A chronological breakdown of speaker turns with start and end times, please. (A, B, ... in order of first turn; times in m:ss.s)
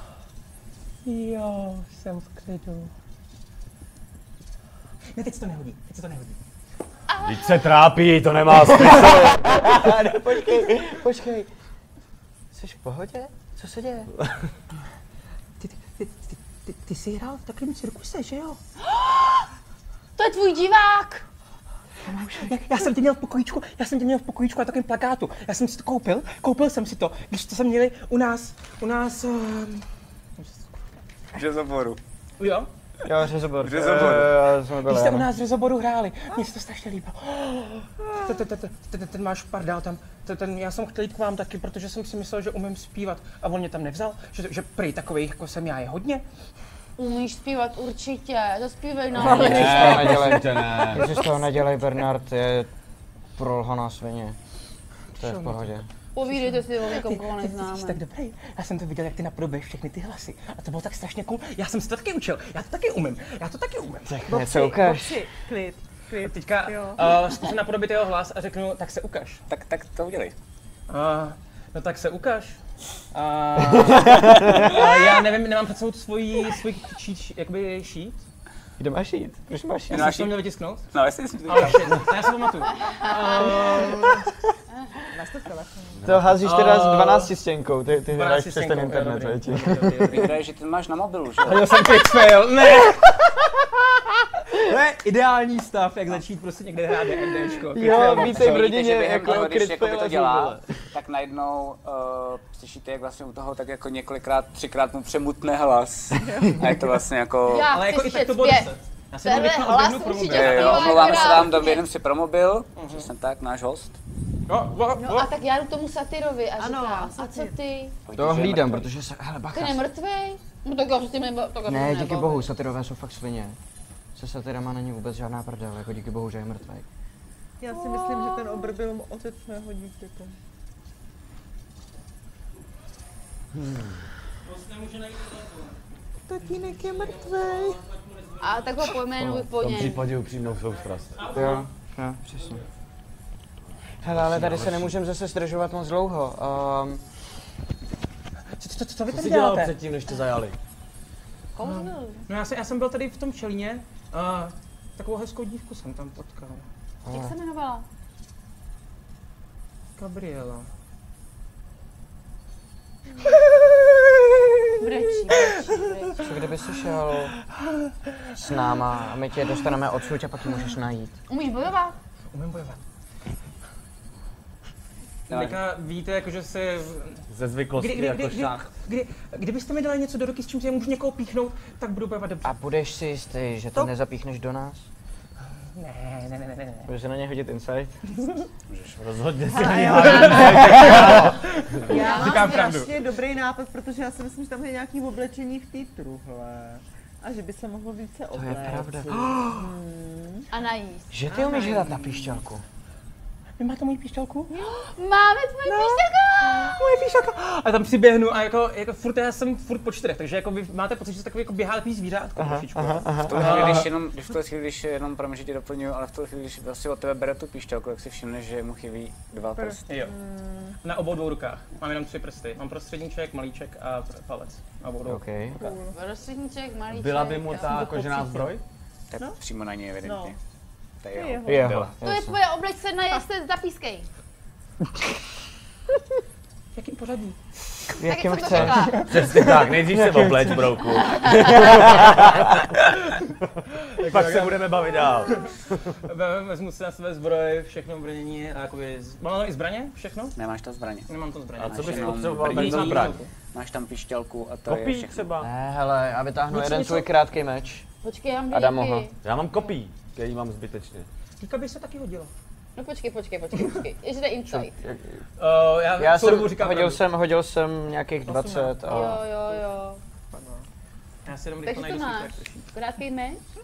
0:01.0-0:02.9 A
0:05.1-0:06.4 A
0:07.1-0:07.6 B
0:07.2-0:09.9 C
0:09.4-0:11.5 D
0:12.5-0:14.1 D
0:15.6-0:18.6 A
0:18.8-0:19.5 B
0:20.2-0:21.2 B
0:22.1-0:22.5 D
0:22.3-0:29.8 A
0:30.4-0:30.8 A
0:31.3-0:32.0 E
0:32.4-0:32.7 A
0:33.0-0:35.3 D
0:33.6-0:34.4 E
0:34.7-0:46.2 A
0:47.0-0:50.1 B
0:49.1-0:50.9 F
0:49.2-0:52.7 D
0:49.4-0:51.2 C
0:53.4-0:54.4 D
0:55.1-1:04.2 A
0:55.2-0:55.9 D
0:56.1-0:58.0 B
1:04.2-1:05.2 D
1:04.3-1:07.0 F
1:06.2-1:09.4 A
1:09.5-1:10.3 E
1:10.9-1:12.6 A
1:13.1-1:18.2 A
1:18.8-1:20.2 D
1:19.9-1:20.9 A
1:19.9-1:22.2 E
1:21.4-1:24.2 A
1:22.9-1:23.6 B
1:25.1-1:26.1 F
1:26.0-1:26.3 C
1:26.0-1:30.3 D
1:26.3-1:27.3 A
1:28.1-1:30.3 A
1:30.1-1:31.8 E
1:31.4-1:33.5 A
1:34.5-1:38.6 A
1:37.7-1:40.6 D
1:38.1-1:47.7 E
1:46.4-1:46.8 D
1:47.4-1:51.8 B
1:47.7-1:51.5 A
1:50.2-1:54.0 E
1:52.8-1:53.1 A
1:54.5-1:55.3 A
1:55.0-1:57.9 B
1:56.6-1:57.6 F
1:58.0-1:58.9 E
1:58.1-1:59.8 D
1:59.5-2:02.5 B
2:01.6-2:03.6 D
2:04.1-2:06.8 D
2:07.6-2:10.4 F
2:07.9-2:08.4 B
2:13.5-2:14.0 C
2:14.5-2:15.7 A
2:16.3-2:17.8 F
2:16.8-2:18.4 A
2:18.4-2:20.1 B
2:19.2-2:19.5 D
2:19.5-2:21.4 C
2:21.2-2:21.7 A
2:21.3-2:22.6 D
2:24.0-2:27.0 D
2:24.0-2:25.0 C
2:28.5-2:29.8 A
2:29.1-2:30.6 C
2:31.5-2:32.2 B
2:31.6-2:36.7 A
2:37.0-2:37.3 D
2:37.1-2:37.8 B
2:40.0-2:40.7 A
2:44.8-2:46.4 B
2:46.2-2:47.4 D
2:48.4-2:51.2 D
2:51.3-2:52.0 B
2:52.3-2:52.8 A
2:55.3-3:02.5 A
2:55.3-2:55.6 E
2:57.3-2:58.7 C
3:02.4-3:04.9 D
3:05.7-3:06.9 A
3:06.9-3:08.0 D
3:08.7-3:09.0 E
3:09.0-3:11.4 C
3:09.5-3:11.3 F
3:10.1-3:13.0 A
3:11.8-3:20.5 F
3:11.9-3:12.8 B
3:18.3-3:19.7 D
3:20.5-3:21.1 B
3:21.1-3:22.6 D
3:21.3-3:22.2 A
3:21.3-3:21.6 F
3:23.6-3:24.6 A
3:24.5-3:26.8 B
3:25.6-3:33.9 A
3:32.4-3:33.8 D
3:33.3-3:39.8 E
3:39.6-3:40.8 F
3:39.9-3:40.1 A
3:40.8-3:45.7 A
3:45.0-3:45.6 D
3:45.5-3:45.9 F
3:45.9-3:48.2 B
3:46.9-3:48.6 C
3:47.7-3:48.5 A
3:49.1-3:50.4 E
3:50.0-3:50.3 F
3:51.0-3:51.9 E
3:51.1-3:51.8 F
3:51.4-3:52.4 D
3:52.0-3:54.1 B
3:56.7-3:57.4 A
3:57.9-4:00.7 D
3:58.0-3:59.0 B
3:58.5-4:02.9 C
3:58.9-3:59.3 A
4:01.0-4:01.6 B
4:01.4-4:02.1 D
4:04.0-4:05.5 A
4:04.0-4:05.9 C
4:06.0-4:10.3 A
4:10.4-4:11.1 E
4:11.1-4:13.3 A
4:11.6-4:13.2 C
4:11.7-4:15.2 E
4:14.7-4:15.5 C
4:15.4-4:17.8 D
4:16.5-4:17.1 A
4:18.0-4:19.1 B
4:18.5-4:19.1 D
4:19.2-4:21.1 C
4:21.4-4:22.3 A
4:22.8-4:24.7 B
4:24.5-4:25.2 D
4:25.4-4:27.0 A
4:26.0-4:29.2 D
4:28.2-4:29.0 A
4:28.8-4:30.0 B
4:30.3-4:30.6 F
4:31.2-4:32.6 A
4:31.6-4:33.4 B